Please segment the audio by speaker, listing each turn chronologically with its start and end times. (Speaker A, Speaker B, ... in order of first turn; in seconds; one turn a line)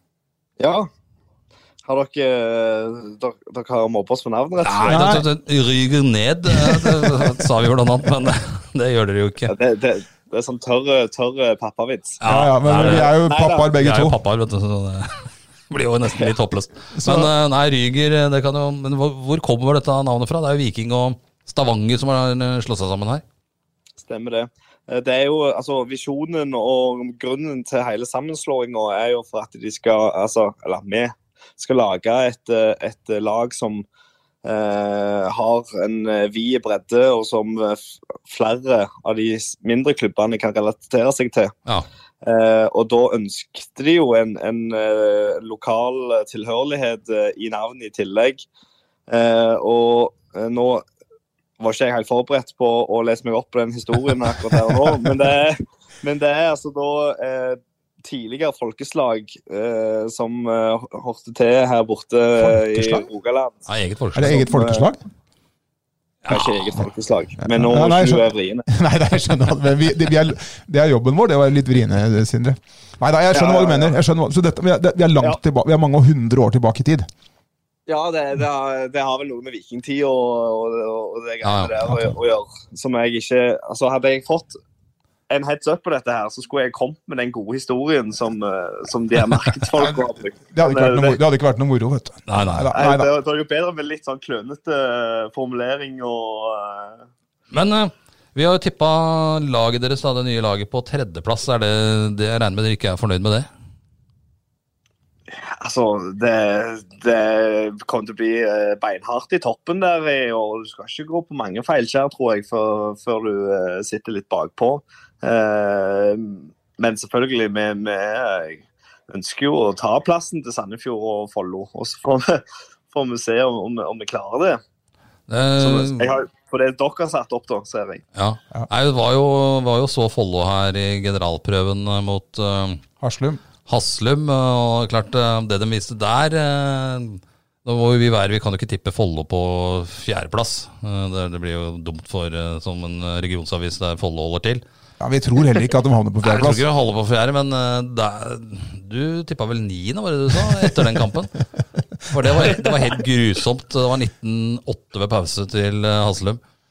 Speaker A: 0.6-0.9
Speaker A: 1.9-5.2
Speaker B: 4.6-9.5
Speaker C: 4.8-5.3
Speaker A: 9.5-12.2
Speaker B: 12.2-13.2
Speaker C: 12.2-14.2
Speaker A: 12.7-13.7
Speaker B: 13.7-23.2
Speaker C: 16.9-17.3
Speaker A: 24.0-33.9
Speaker A: 34.4-41.5
Speaker A: 42.2-48.4
Speaker A: 49.1-50.9
Speaker A: 51.6-63.6
Speaker C: 62.4-63.1
Speaker B: 63.7-64.4
Speaker C: 64.2-65.0
Speaker A: 64.2-64.9
Speaker B: 66.3-66.6
Speaker A: 66.3-68.7
Speaker C: 67.4-77.1
Speaker A: 73.3-74.0
Speaker A: 77.9-84.6
Speaker B: 81.4-81.8
Speaker A: 85.3-91.2
Speaker C: 89.8-90.0
Speaker C: 90.5-93.1
Speaker B: 92.3-92.7
Speaker A: 92.7-97.0
Speaker B: 97.5-103.5
Speaker A: 105.3-124.6
Speaker B: 125.3-126.2
Speaker A: 125.6-128.0
Speaker B: 128.2-132.8
Speaker C: 133.0-133.4
Speaker B: 133.7-144.6
Speaker C: 145.0-146.7
Speaker B: 146.2-151.4
Speaker B: 152.1-156.4